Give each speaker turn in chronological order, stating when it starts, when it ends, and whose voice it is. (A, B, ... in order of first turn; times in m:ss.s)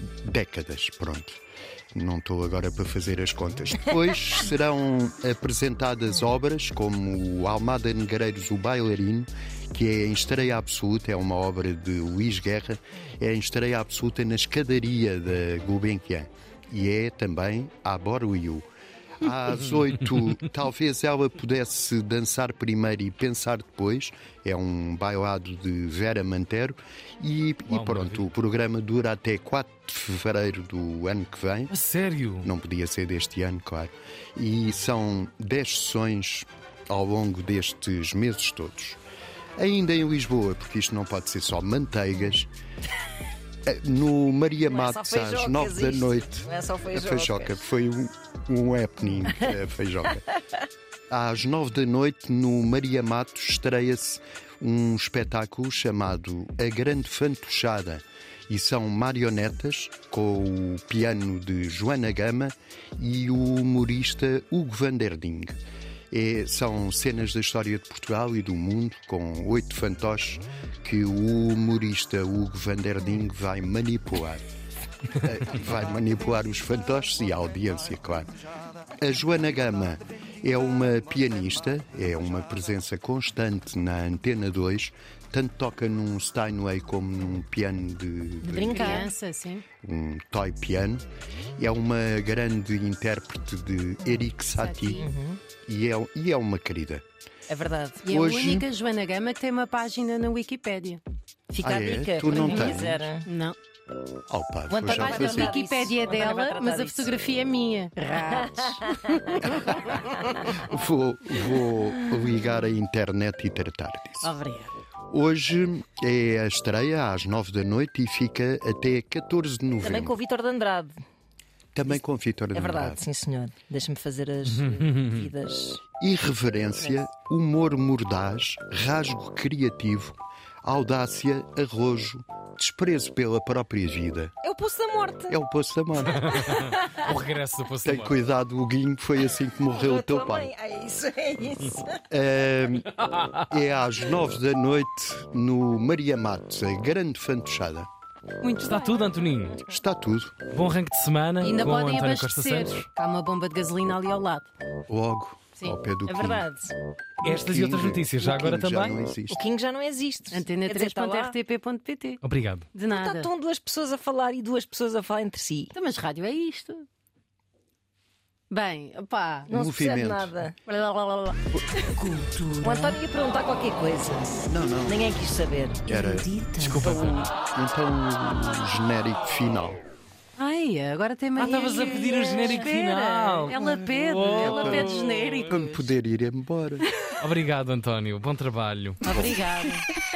0:00.2-0:01.4 A
0:01.9-0:18.6 A
0:19.2-0:31.7 A
0:27.7-0:28.2 B
0:31.7-0:32.5 B
0:32.4-0:39.0 A
0:39.6-0:42.5 A
0:43.6-0:50.3 A
0:44.7-0:47.6 C
0:51.1-1:05.6 A
1:06.1-1:14.4 A
1:15.2-1:18.3 A
1:19.0-1:29.0 A
1:28.4-1:29.1 C
1:28.5-1:29.6 D
1:29.8-1:31.0 A
1:31.6-1:35.1 A
1:34.6-1:35.1 D
1:34.9-1:35.4 C
1:35.6-1:37.0 A
1:37.5-1:38.0 C
1:38.0-1:41.0 D
1:38.1-1:38.7 A
1:41.6-1:43.3 C
1:41.6-1:43.0 A
1:42.3-1:43.6 D
1:44.3-1:45.6 A
1:44.7-1:47.1 C
1:44.9-1:49.6 D
1:49.4-1:54.3 A
1:50.3-1:50.6 C
1:54.2-1:54.7 D
1:55.1-2:00.2 A
1:59.8-2:01.0 C
2:01.7-2:03.0 A
2:02.5-2:05.8 C
2:04.5-2:05.2 B
2:06.0-2:14.3 A
2:14.4-2:15.4 C
2:15.3-2:16.5 A
2:16.0-2:18.2 B
2:16.4-2:17.0 C
2:17.8-2:20.5 A
2:19.7-2:22.0 C
2:22.1-2:22.9 A
2:22.9-2:23.5 B
2:23.5-2:27.9 A
2:28.4-2:29.0 D
2:28.6-2:29.6 B
2:29.7-2:30.4 A
2:30.5-2:32.9 B
2:31.4-2:34.5 D
2:34.9-2:36.5 A
2:36.1-2:36.7 C
2:37.2-2:39.0 B
2:37.2-2:39.4 A
2:39.3-2:41.3 C
2:40.3-2:42.2 D
2:42.2-2:42.7 B
2:42.7-2:43.3 D
2:42.9-2:45.7 C
2:45.7-2:46.8 D
2:48.5-2:49.5 D
2:49.5-2:50.5 C
2:49.5-2:50.4 A
2:50.6-2:51.4 D
2:51.8-2:53.0 E
2:52.6-2:55.9 C
2:54.4-2:55.0 A
2:55.9-2:57.0 E
2:55.9-2:59.8 A
2:56.8-2:57.3 B
3:00.4-3:05.8 D
3:01.4-3:05.4 B
3:04.4-3:06.9 A
3:07.2-3:09.1 B
3:09.0-3:09.8 D